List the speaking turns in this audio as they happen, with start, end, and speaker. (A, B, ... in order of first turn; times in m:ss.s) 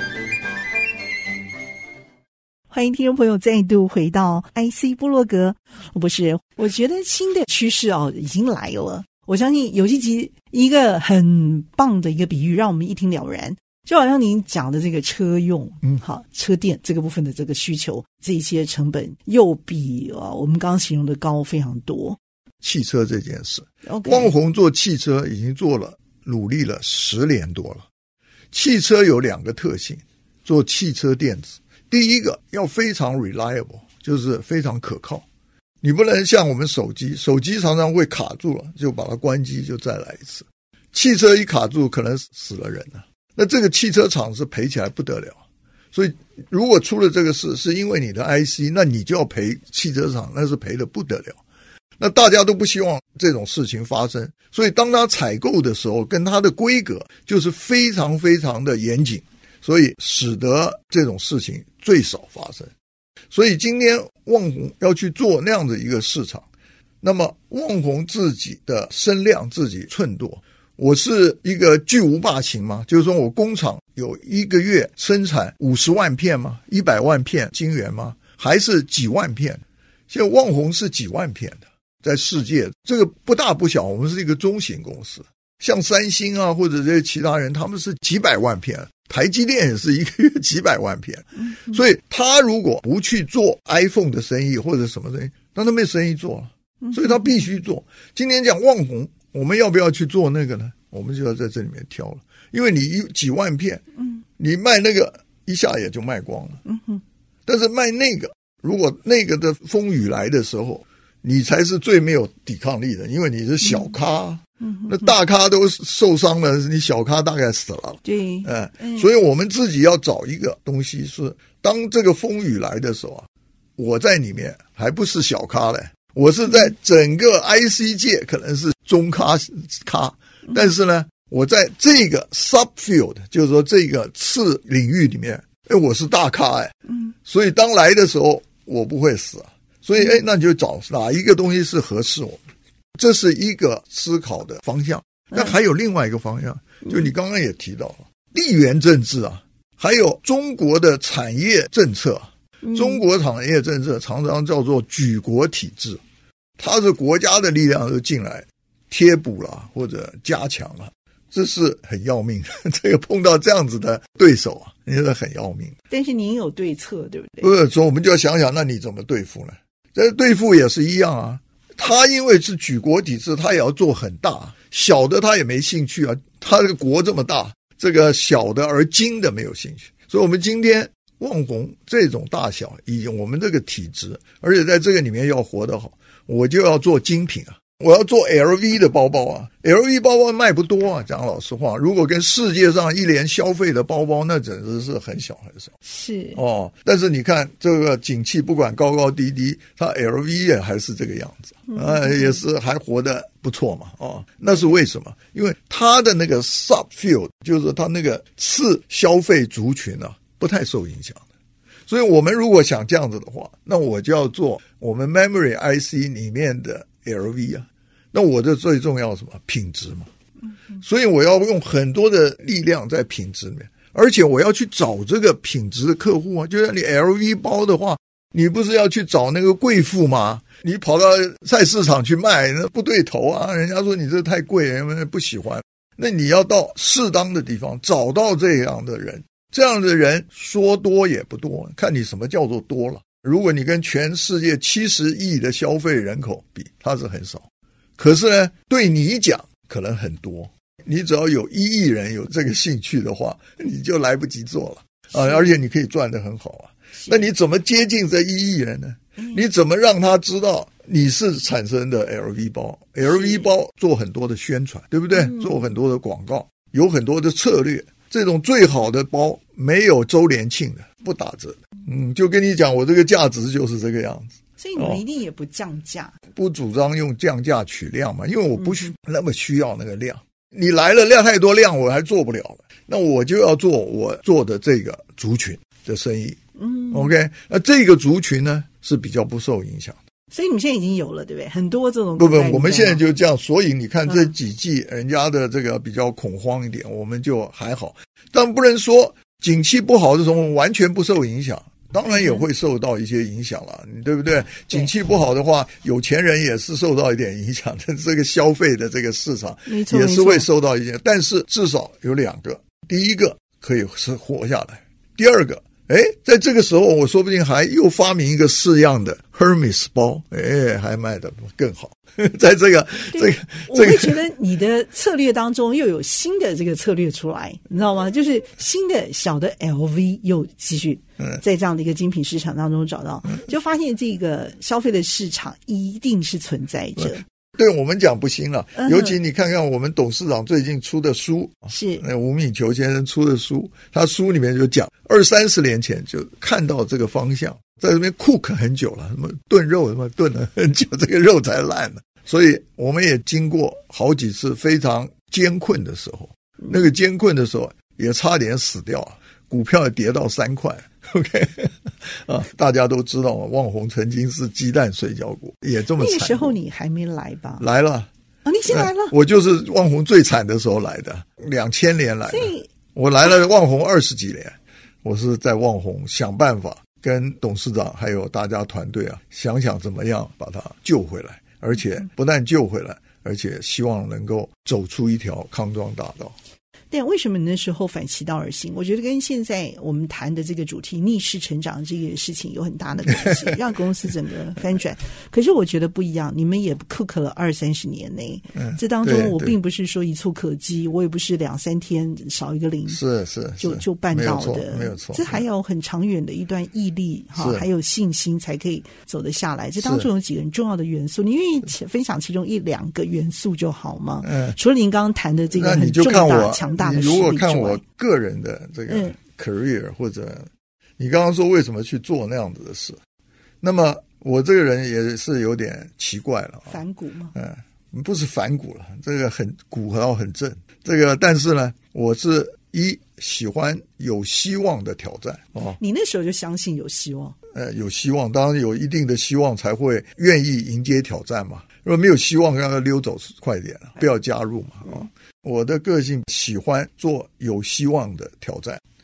0:02.7-0:22.2 A
0:22.6-0:27.8 B
0:23.9-0:24.3 A
0:28.5-0:35.2 B
0:35.8-0:45.4 B
0:45.9-0:51.4 B
0:52.0-1:02.7 B
1:03.3-1:06.4 B
1:07.0-1:43.8 B
1:31.4-1:31.8 A
1:36.8-1:37.2 A
1:44.4-1:46.6 B
1:46.6-1:47.0 A
1:47.4-2:16.7 B
1:53.7-1:53.9 A
1:54.6-1:55.1 A
1:58.0-1:59.1 A
2:17.2-2:22.4 B
2:23.0-2:36.0 B
2:32.6-2:33.0 A
2:36.6-2:45.7 B
2:45.9-2:47.5 A
2:47.4-3:15.7 B
3:15.8-3:16.4 A
3:16.3-3:31.2 B
3:21.7-3:22.4 A
3:31.9-3:40.1 B
3:40.8-4:07.4 B
4:08.0-4:35.0 B
4:17.0-4:17.2 A
4:19.2-4:19.4 A
4:23.1-4:23.5 A
4:25.1-4:25.6 A
4:34.6-4:36.2 A
4:36.3-4:46.4 B
4:38.6-4:38.9 A
4:46.6-4:47.1 A
4:46.9-4:50.0 B
4:50.3-4:53.0 A
4:52.2-5:24.2 B
5:02.1-5:02.4 A
5:09.7-5:10.4 A
5:23.1-5:37.2 A
5:37.0-6:06.6 B
5:38.8-5:39.1 A
5:41.7-5:42.0 A
6:06.0-6:07.6 A
6:07.6-6:08.1 B
6:08.4-6:09.1 A
6:08.7-6:26.3 B
6:12.3-6:12.7 A
6:26.9-6:43.0 A
6:33.1-6:33.5 B
6:38.5-6:39.6 B
6:42.9-6:45.4 B
6:43.6-6:57.8 A
6:47.3-6:47.6 B
6:49.8-6:50.1 B
6:54.2-6:54.6 B
6:55.5-7:03.0 B
6:58.9-6:59.2 A
7:03.6-7:06.8 B
7:06.7-7:07.3 A
7:07.3-7:15.8 B
7:15.8-7:17.4 A
7:17.5-7:28.8 B